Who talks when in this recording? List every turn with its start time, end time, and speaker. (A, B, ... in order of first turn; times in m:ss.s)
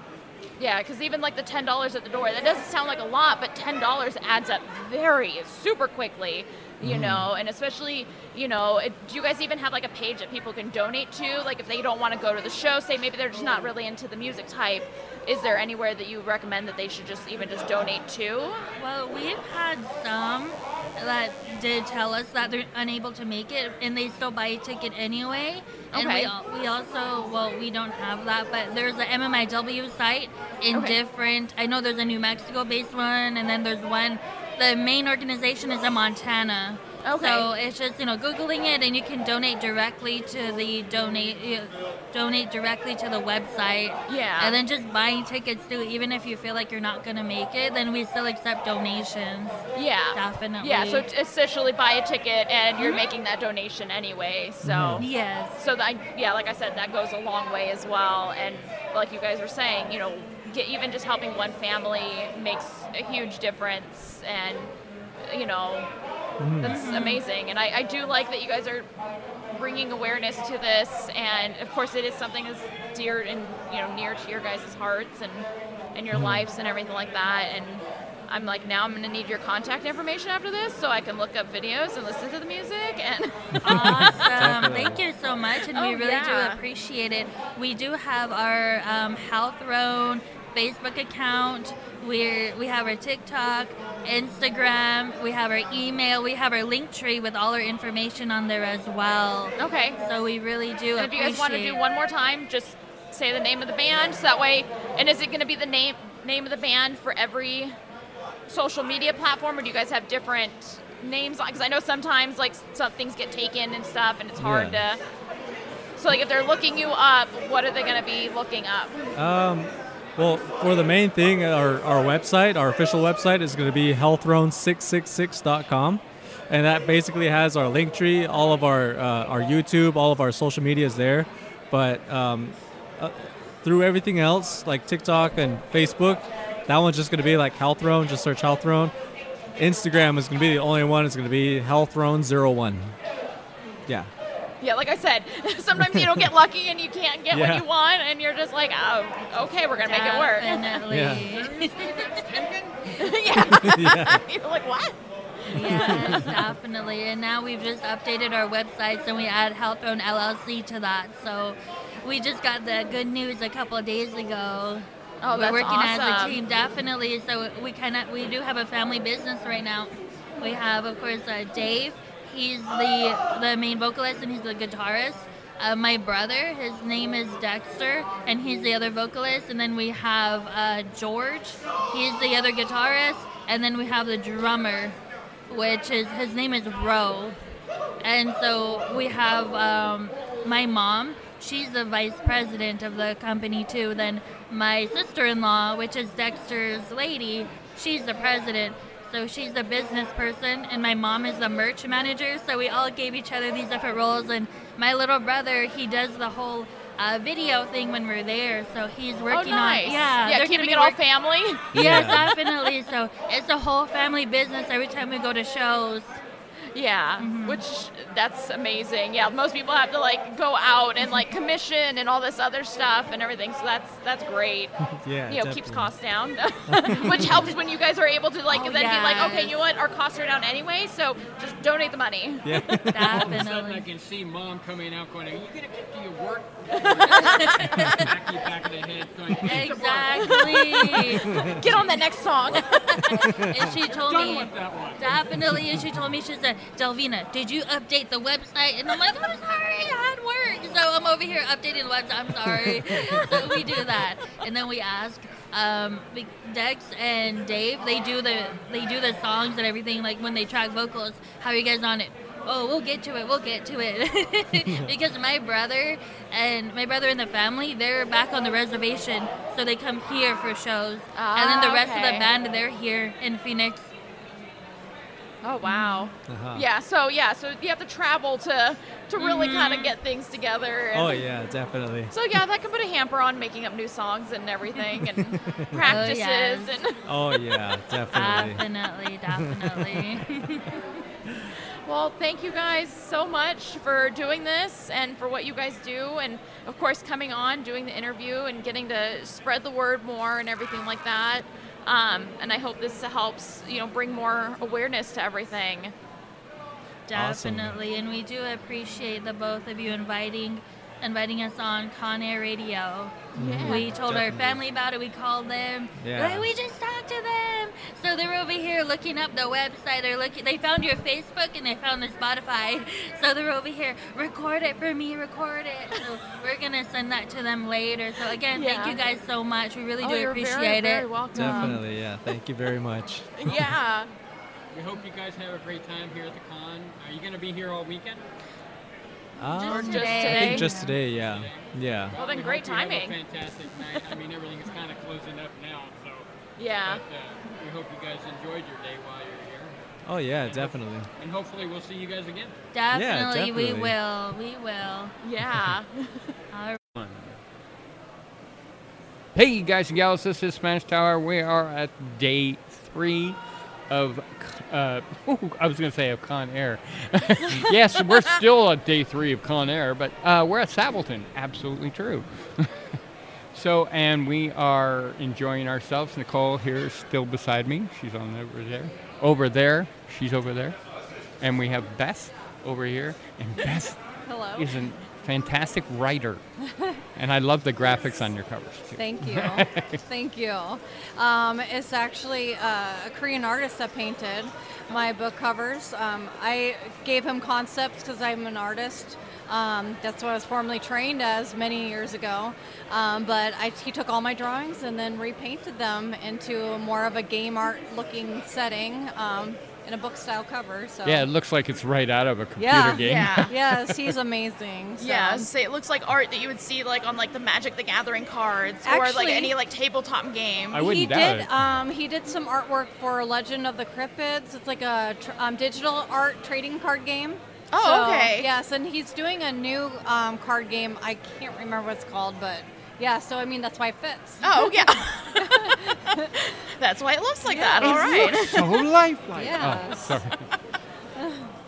0:00.6-0:18.6 A
0:06.8-0:07.3 B
0:18.8-0:49.6 C
0:25.9-0:26.3 A
0:37.0-0:37.5 A
0:44.1-0:44.6 A
0:49.8-0:55.1 A
0:50.1-0:51.1 C
0:54.6-0:55.0 B
0:55.0-0:55.6 C
0:55.6-1:04.7 A
1:05.3-1:05.9 A
1:06.4-1:06.8 B
1:06.6-1:08.9 A
1:06.7-1:07.2 C
1:09.5-1:24.1 A
1:16.1-1:16.5 B
1:23.6-1:41.8 C
1:23.6-1:25.0 B
1:25.7-1:26.6 A
1:39.6-1:40.0 A
1:41.0-1:47.8 A
1:48.5-1:55.0 A
1:54.4-1:54.8 B
1:56.0-1:59.1 A
1:59.2-2:18.9 B
2:19.6-2:23.0 B
2:24.6-2:30.8 A
2:25.7-2:26.3 B
2:27.3-2:27.6 B
2:29.8-2:31.7 C
2:30.9-2:31.2 B
2:31.6-2:32.6 D
2:33.0-2:35.0 A
2:33.4-2:34.2 B
2:35.5-2:36.3 B
2:35.5-3:05.0 C
2:35.7-2:36.3 A
2:45.2-2:46.4 A
3:05.5-3:07.4 C
3:08.0-3:31.0 C
3:29.3-3:31.7 A
3:31.7-3:36.2 C
3:31.7-3:32.3 B
3:36.7-3:44.8 A
3:37.2-3:37.6 C
3:45.0-3:45.9 B
3:45.3-3:52.6 A
3:46.7-3:47.4 B
3:46.9-3:47.2 C
3:48.5-3:49.6 C
3:52.4-3:53.4 B
3:52.9-3:53.9 C
3:53.2-3:56.4 D
3:56.7-3:58.0 A
3:57.0-3:58.0 C
3:57.9-3:59.6 D
3:59.4-4:01.9 C
4:00.0-4:03.2 A
4:01.3-4:01.6 B
4:02.8-4:33.9 C
4:03.2-4:03.7 B
4:04.0-4:05.0 D
4:12.4-4:13.7 B
4:24.7-4:24.9 B
4:31.2-4:32.3 A
4:35.4-4:41.2 A
4:35.6-4:36.1 C
4:36.3-4:36.6 B
4:39.2-4:40.0 C
4:40.9-4:42.1 B
4:42.1-4:47.0 A
4:45.1-4:46.0 B
4:45.8-4:46.7 C
4:47.1-4:48.6 B
4:48.1-4:50.7 C
4:49.3-4:50.2 B
4:51.9-5:05.9 A
5:07.1-5:31.8 C
5:07.1-5:07.8 B
5:13.4-5:14.6 B
5:13.4-5:13.9 A
5:16.0-5:16.5 B
5:28.5-5:29.0 A
5:30.0-5:31.8 A
5:31.3-5:33.7 B
5:33.4-5:34.1 A
5:34.7-5:38.2 D
5:39.4-5:42.2 B
5:39.6-5:40.6 A
5:39.6-5:41.0 C
5:42.1-5:46.2 D
5:42.2-5:43.2 A
5:43.8-5:44.1 A
5:46.6-5:47.0 A
5:46.9-5:49.7 D
5:50.0-5:51.1 B
5:50.5-5:52.5 D
5:52.7-5:55.1 C
5:52.9-5:54.0 B
5:55.2-5:56.3 A
5:56.5-5:56.8 C
5:57.0-5:57.4 D
5:59.4-6:03.4 D
6:03.9-6:12.7 D
6:13.5-6:20.8 D
6:21.4-6:24.0 D
6:24.3-6:24.7 E
6:24.6-6:26.4 D
6:27.2-6:30.0 D
6:29.0-6:51.3 E
6:51.0-6:54.1 D
6:52.6-6:55.5 E
6:53.0-6:53.5 A
6:55.0-7:00.8 A
6:58.8-6:59.5 E
7:00.7-7:01.5 D
7:00.8-7:16.3 E
7:07.7-7:08.5 A
7:14.4-7:18.8 A
7:17.5-7:20.2 E
7:17.8-7:20.4 D
7:21.2-7:21.5 E